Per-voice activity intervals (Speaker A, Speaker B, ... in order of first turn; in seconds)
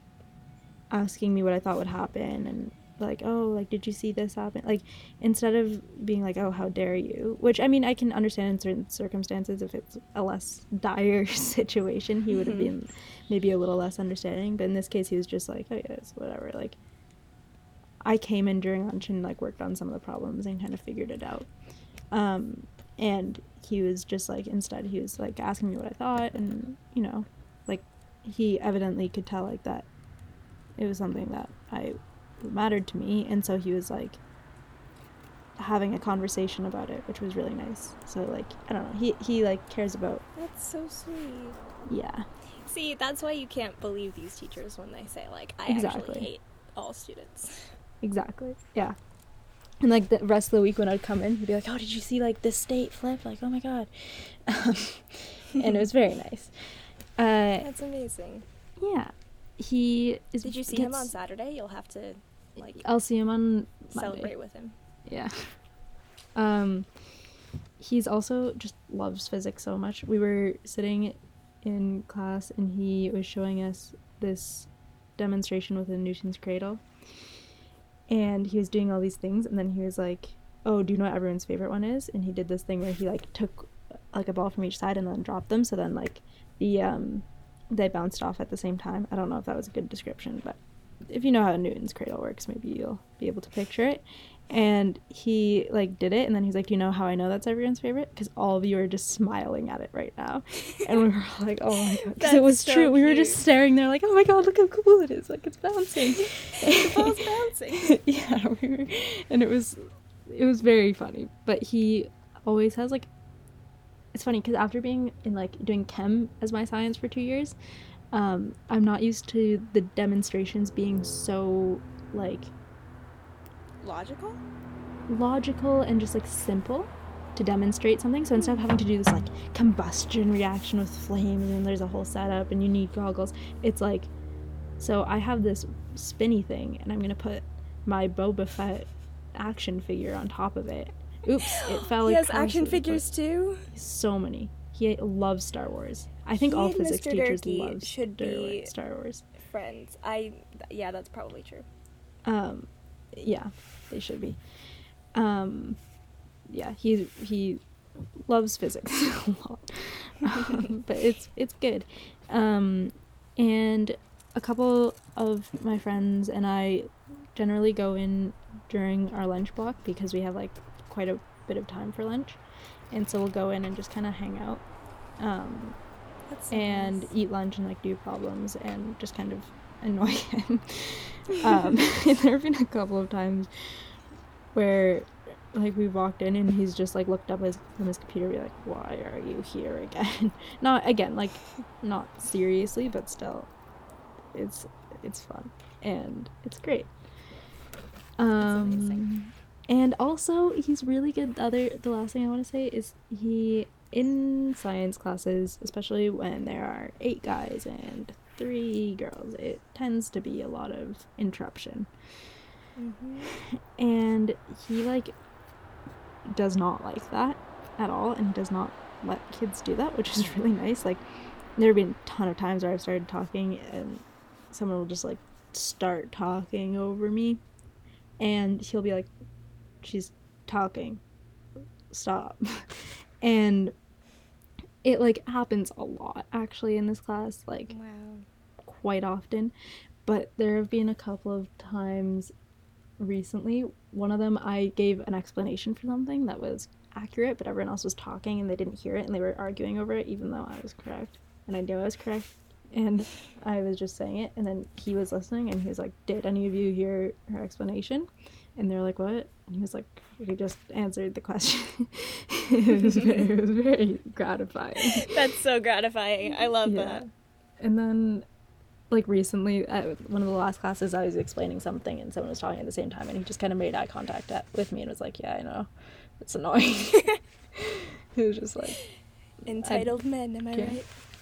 Speaker A: 0.9-16.8, 18.0-21.5, 22.1-29.9, 30.8-34.2, 35.6-40.2, 41.9-42.2, 45.7-46.3, 48.0-49.0, 49.8-56.5, 57.2-57.7, 58.8-61.1, 62.8-64.3, 65.0-65.5, 66.3-66.9, 67.8-76.8, 78.1-107.2, 107.8-113.1, 114.1-117.5, 118.1-122.5, 125.1-134.1, 134.8-143.0, 143.7-149.2, 152.2-154.4, 155.1-155.8, 156.5-157.6, 158.3-172.4, 172.9-174.6, 175.2-175.8, 176.5-183.5, 184.5-193.5, 194.3-196.9, 198.2-211.9, 213.3-215.2, 216.3-221.0, 221.6-227.4, 228.2-229.1, 229.8-231.0, 231.9-233.7, 234.8-237.7, 238.6-239.5, 240.1-242.3, 243.0-265.2, 266.6-267.0, 267.6-268.2, 268.9-278.8, 279.6-280.0, 280.5-280.8
Speaker B: 12.3-12.7, 40.4-41.6, 42.6-47.8, 57.6-58.4, 60.4-62.8, 63.9-64.7, 102.0-103.4, 106.2-107.9, 123.8-124.4, 141.4-143.7, 146.3-148.7, 149.4-151.7, 160.4-160.7, 176.3-177.1, 198.4-199.1, 212.8-213.3, 237.7-238.2, 264.8-267.0, 279.4-280.9